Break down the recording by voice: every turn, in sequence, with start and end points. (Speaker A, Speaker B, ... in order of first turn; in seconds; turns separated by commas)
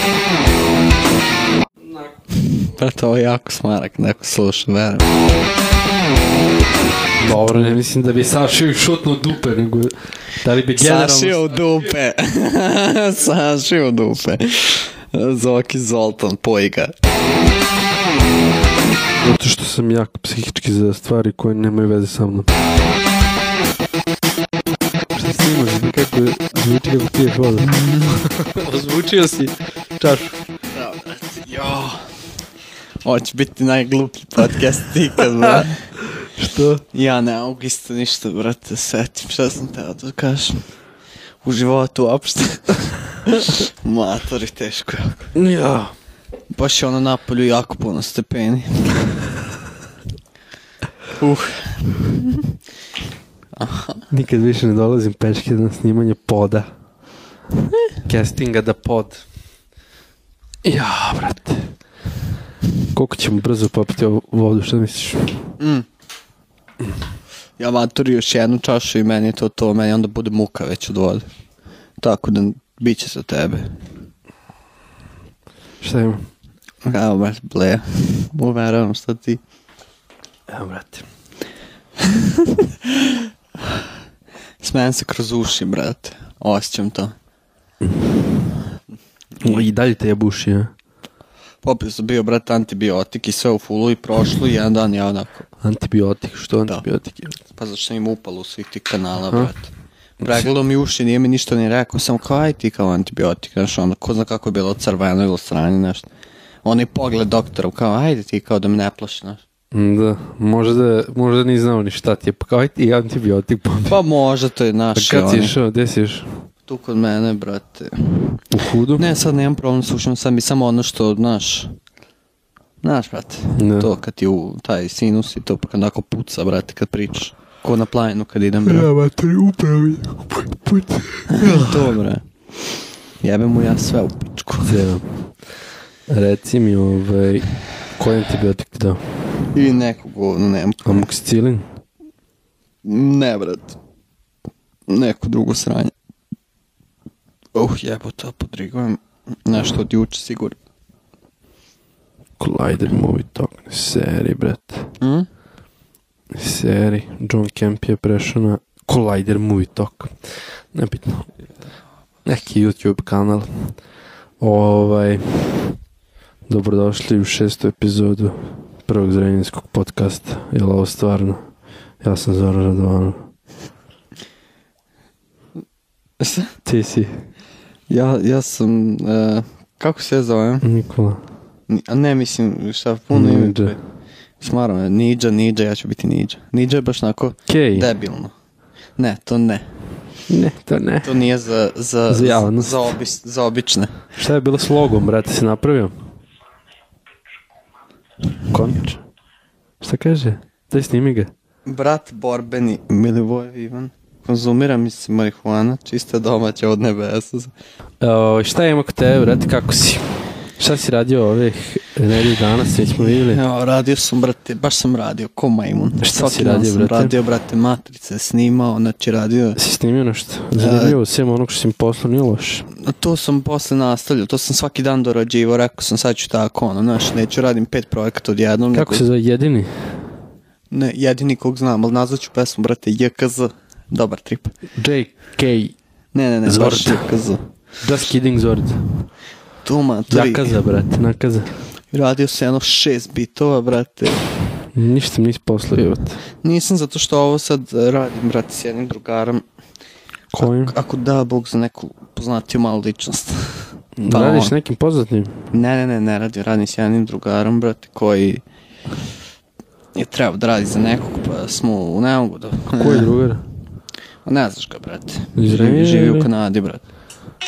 Speaker A: 2.4-5.1, Speaker B: 7.2-11.8, Speaker A: 10.7-16.9, Speaker B: 19.2-22.5, Speaker B: 25.1-30.3, Speaker A: 27.6-28.2, Speaker A: 30.7-32.1, Speaker A: 33.0-35.8, Speaker B: 36.1-36.8, Speaker A: 36.9-40.7, Speaker A: 41.4-45.3, Speaker B: 45.3-45.9, Speaker A: 46.5-49.0, Speaker A: 51.2-52.5, Speaker A: 53.6-54.1, Speaker B: 54.1-56.7, Speaker B: 58.0-59.2, Speaker B: 60.6-61.7, Speaker B: 62.9-65.5, Speaker A: 65.6-65.8, Speaker A: 67.6-71.2, Speaker A: 72.0-73.7, Speaker B: 75.8-76.2, Speaker A: 76.8-79.4, Speaker B: 80.5-81.0, Speaker A: 82.0-83.2, Speaker A: 84.6-87.1, Speaker B: 89.4-90.7, Speaker A: 91.6-95.5, Speaker B: 95.6-97.4, Speaker A: 97.5-106.1, Speaker A: 106.6-109.4, Speaker B: 109.7-114.0, Speaker A: 113.9-115.5, Speaker B: 115.0-116.3, Speaker A: 116.7-118.4, Speaker B: 118.5-119.0, Speaker A: 119.0-121.8, Speaker A: 122.8-128.9, Speaker B: 123.6-123.9, Speaker B: 128.7-131.9, Speaker A: 131.3-132.2, Speaker A: 133.2-134.8, Speaker B: 134.6-135.1, Speaker B: 136.1-139.0, Speaker A: 139.5-141.0, Speaker B: 140.8-141.7, Speaker A: 142.8-143.8, Speaker A: 144.9-145.9, Speaker A: 147.5-150.6, Speaker B: 152.4-154.9, Speaker A: 155.0-155.3, Speaker B: 156.3-160.2, Speaker B: 160.7-161.3, Speaker B: 162.2-163.8, Speaker B: 164.4-165.8, Speaker B: 166.5-171.4, Speaker B: 172.0-173.2, Speaker A: 176.2-176.5, Speaker B: 176.6-177.1, Speaker A: 177.9-180.6, Speaker B: 180.6-181.2, Speaker A: 181.7-183.8, Speaker B: 183.1-183.8, Speaker A: 184.4-188.3, Speaker B: 187.5-187.9, Speaker A: 189.0-189.7, Speaker B: 190.3-191.2, Speaker A: 191.0-194.0, Speaker B: 192.1-192.9, Speaker B: 194.2-195.9, Speaker B: 198.5-199.0, Speaker B: 199.8-201.3, Speaker A: 201.7-207.5, Speaker B: 208.0-213.4, Speaker A: 212.9-219.6, Speaker B: 216.0-217.1, Speaker B: 219.6-222.7, Speaker A: 220.6-221.0, Speaker A: 222.7-229.1, Speaker B: 228.7-229.9, Speaker A: 230.7-234.6, Speaker B: 234.7-235.8, Speaker A: 236.1-237.4, Speaker B: 236.4-237.0, Speaker B: 237.8-238.8, Speaker A: 239.6-240.6, Speaker B: 240.1-241.5, Speaker A: 241.9-244.2, Speaker B: 244.7-246.2, Speaker A: 246.4-249.4, Speaker B: 250.3-250.7, Speaker A: 250.4-254.5, Speaker B: 254.0-255.3, Speaker A: 255.5-258.4, Speaker A: 259.9-263.1, Speaker B: 262.8-263.4, Speaker A: 264.2-266.8, Speaker B: 265.4-266.3